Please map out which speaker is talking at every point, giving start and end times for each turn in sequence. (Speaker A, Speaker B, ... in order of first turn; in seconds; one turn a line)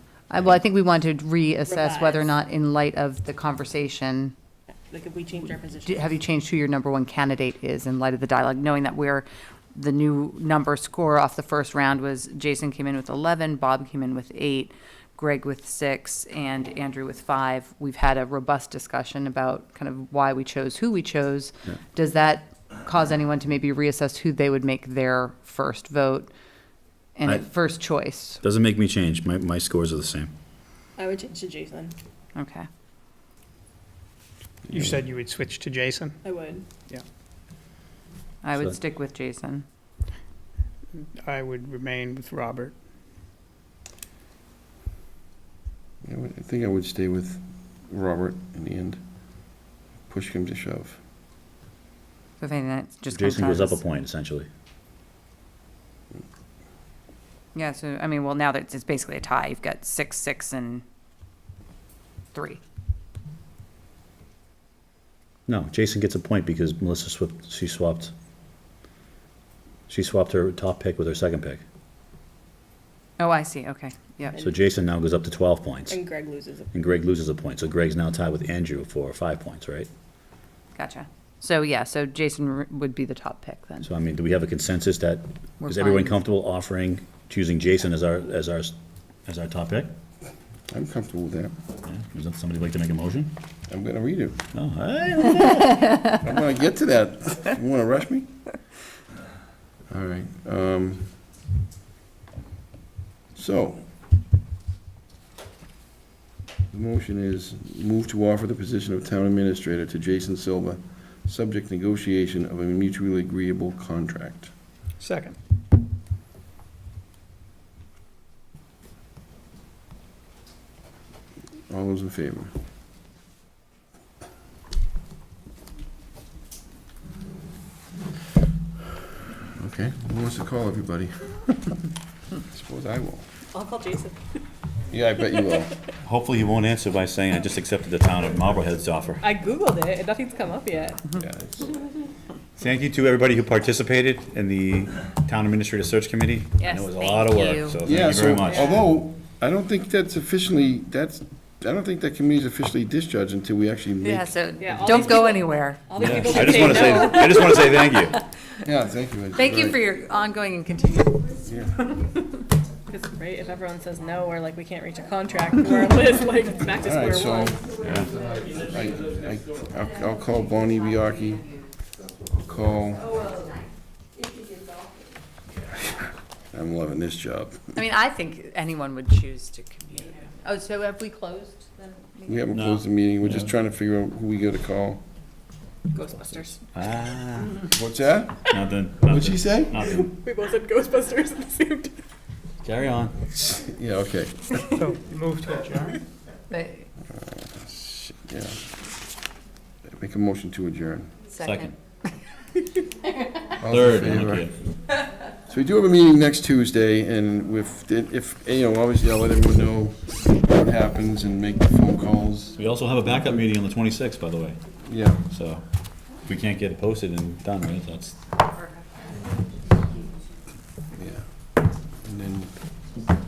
Speaker A: 0.3-4.3
Speaker B: 1.7-2.3
Speaker B: 4.9-6.1
Speaker A: 5.8-26.3
Speaker A: 27.1-28.4
Speaker C: 28.4-30.3
Speaker B: 31.0-31.9
Speaker A: 32.3-32.7
Speaker D: 34.7-35.0
Speaker E: 34.7-36.2
Speaker B: 36.2-36.6
Speaker A: 38.4-39.6
Speaker E: 41.2-42.7
Speaker D: 46.0-49.0
Speaker D: 50.1-51.0
Speaker A: 52.4-53.8
Speaker C: 53.1-54.5
Speaker A: 57.5-60.8
Speaker A: 62.3-62.6
Speaker C: 65.5-68.1
Speaker C: 69.9-71.6
Speaker A: 73.2-74.4
Speaker C: 74.4-76.0
Speaker B: 75.9-76.7
Speaker C: 76.7-79.9
Speaker A: 80.8-83.9
Speaker C: 83.8-88.7
Speaker A: 85.6-86.2
Speaker C: 89.2-89.9
Speaker D: 90.7-91.5
Speaker C: 91.8-93.3
Speaker D: 93.7-94.4
Speaker C: 94.5-96.1
Speaker D: 96.2-98.3
Speaker D: 99.9-101.1
Speaker D: 103.3-103.8
Speaker D: 106.7-114.5
Speaker E: 115.0-115.4
Speaker D: 121.7-122.5
Speaker D: 129.6-131.7
Speaker D: 132.5-133.3
Speaker B: 133.5-134.2
Speaker D: 134.9-135.8
Speaker C: 136.0-139.2
Speaker B: 139.2-141.0
Speaker D: 141.1-141.7
Speaker C: 142.6-148.9
Speaker A: 146.6-147.8
Speaker D: 147.8-154.3
Speaker B: 148.4-148.8
Speaker A: 154.0-158.2
Speaker B: 154.6-157.7
Speaker C: 156.0-158.1
Speaker D: 158.6-159.8
Speaker A: 159.3-161.2
Speaker D: 161.4-161.7
Speaker B: 162.9-167.7
Speaker D: 166.8-167.7
Speaker C: 167.8-168.1
Speaker D: 168.5-171.5
Speaker A: 171.1-171.7
Speaker D: 172.2-173.2
Speaker D: 176.5-177.8
Speaker A: 177.7-182.5
Speaker D: 182.2-185.0
Speaker C: 182.5-183.5
Speaker B: 185.9-186.7
Speaker C: 186.7-187.7
Speaker D: 187.6-188.5
Speaker C: 188.5-190.1
Speaker D: 189.0-189.8
Speaker B: 189.7-192.0
Speaker C: 192.6-193.2
Speaker D: 193.3-194.7
Speaker E: 194.7-196.0
Speaker A: 196.5-196.9
Speaker D: 197.1-198.7
Speaker D: 199.8-201.2
Speaker A: 201.3-202.1
Speaker C: 201.4-201.7
Speaker D: 203.6-204.5
Speaker C: 203.7-204.5
Speaker D: 205.5-212.6
Speaker C: 212.5-214.6
Speaker D: 214.8-215.2
Speaker C: 215.3-215.6
Speaker C: 216.2-218.2
Speaker D: 220.9-221.2
Speaker D: 222.0-222.5